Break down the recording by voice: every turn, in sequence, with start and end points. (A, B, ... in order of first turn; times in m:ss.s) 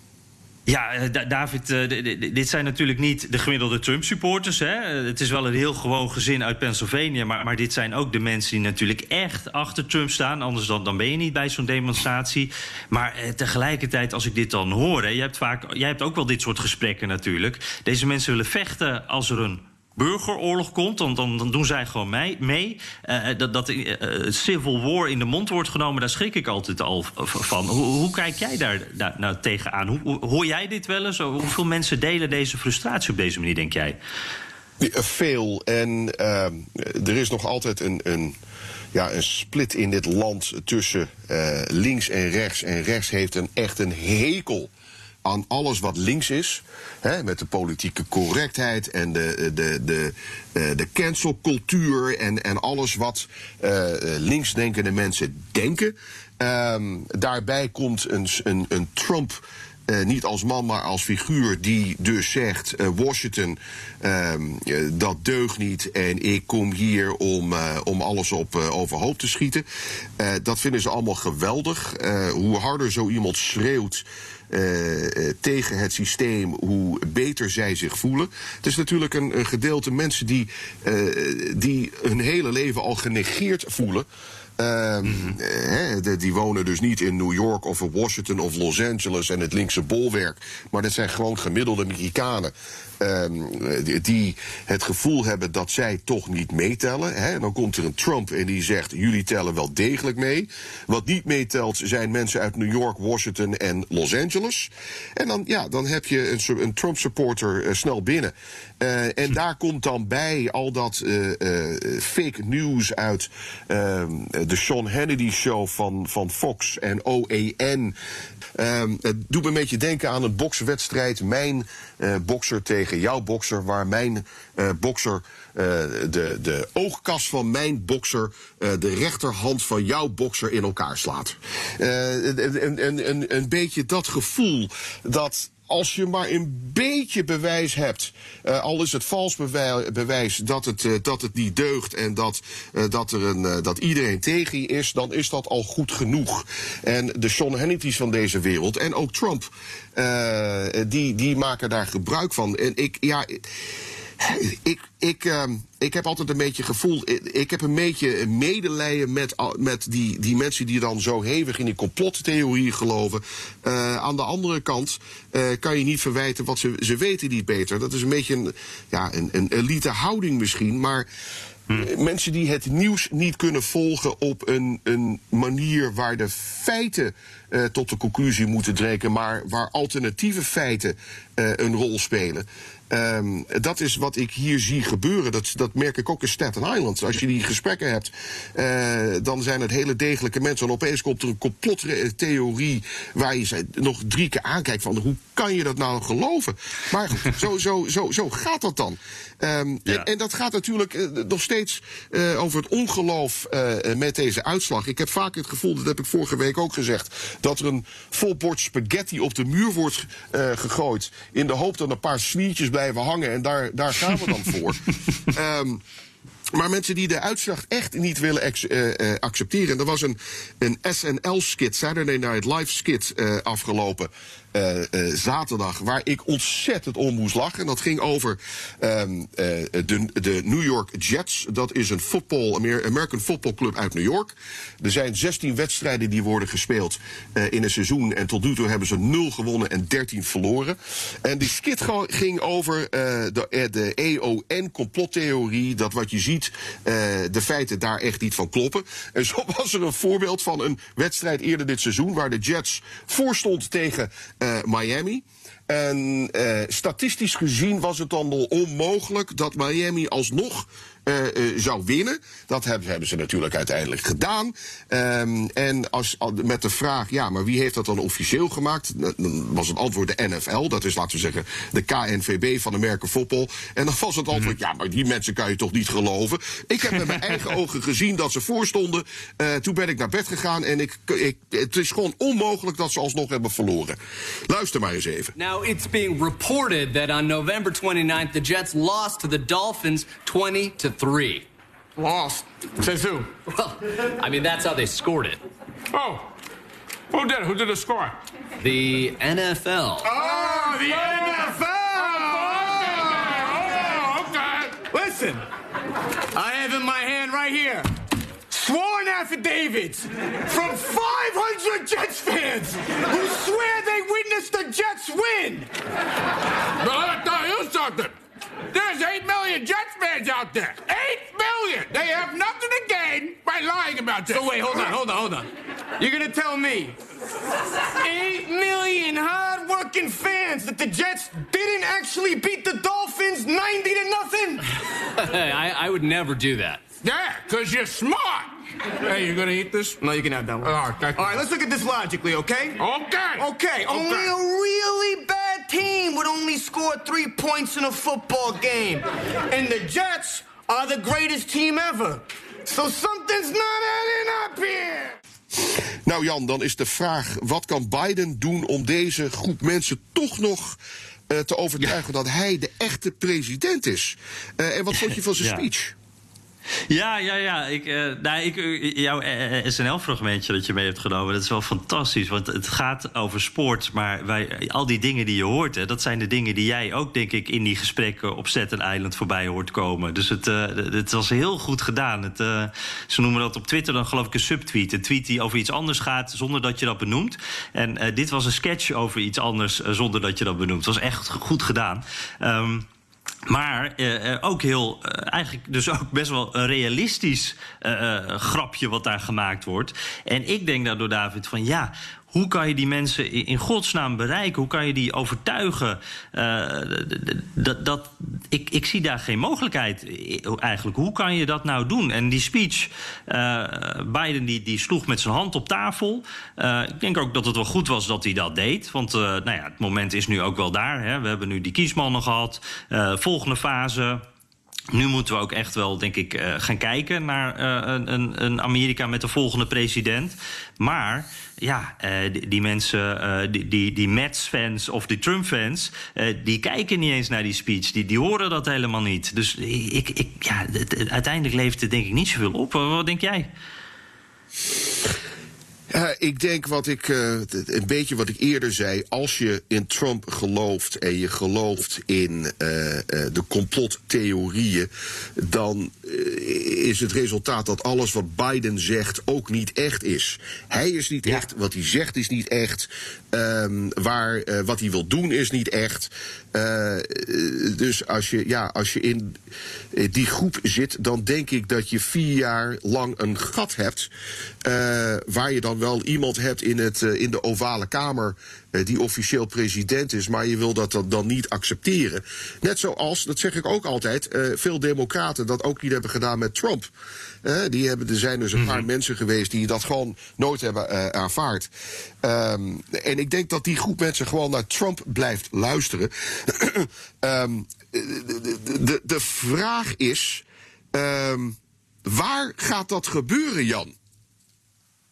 0:00.7-0:34.0 A
0:34.8-0:38.4 B
0:38.9-0:44.7 B
0:45.2-1:09.7 B
1:10.2-1:24.1 B
1:24.6-1:58.0 B
1:25.1-1:25.3 A
1:58.6-2:33.5 B
2:34.2-2:51.1 B
2:51.7-3:35.8 B
3:36.5-4:45.3 B
4:45.4-4:51.4 C
4:52.0-4:53.3 D
4:53.5-4:55.4 C
4:55.9-4:56.3 E
4:57.1-4:58.2 E
4:58.6-5:00.1 C
5:00.0-5:03.3 D
5:00.1-5:04.8 E
5:04.9-5:05.4 D
5:06.4-5:07.9 D
5:08.5-5:15.7 D
5:16.8-5:18.2 E
5:18.7-5:24.9 E
5:24.3-5:27.0 D
5:28.0-5:34.6 D
5:35.2-5:36.8 C
5:37.1-5:38.6 E
5:39.1-5:40.0 E
5:40.0-5:42.8 D
5:40.6-5:41.4 E
5:42.8-5:44.3 E
5:43.4-5:55.2 D
5:55.6-6:00.8 B
6:01.3-6:06.0 B
6:05.4-6:05.6 A
6:06.9-6:32.9 A
6:33.5-7:04.2 A
7:04.9-7:23.5 A
7:25.9-7:49.4 B
7:49.9-7:54.1 B
7:54.6-8:06.9 B
8:07.4-8:11.7 B
8:08.6-8:08.8 A
8:12.2-8:23.9 B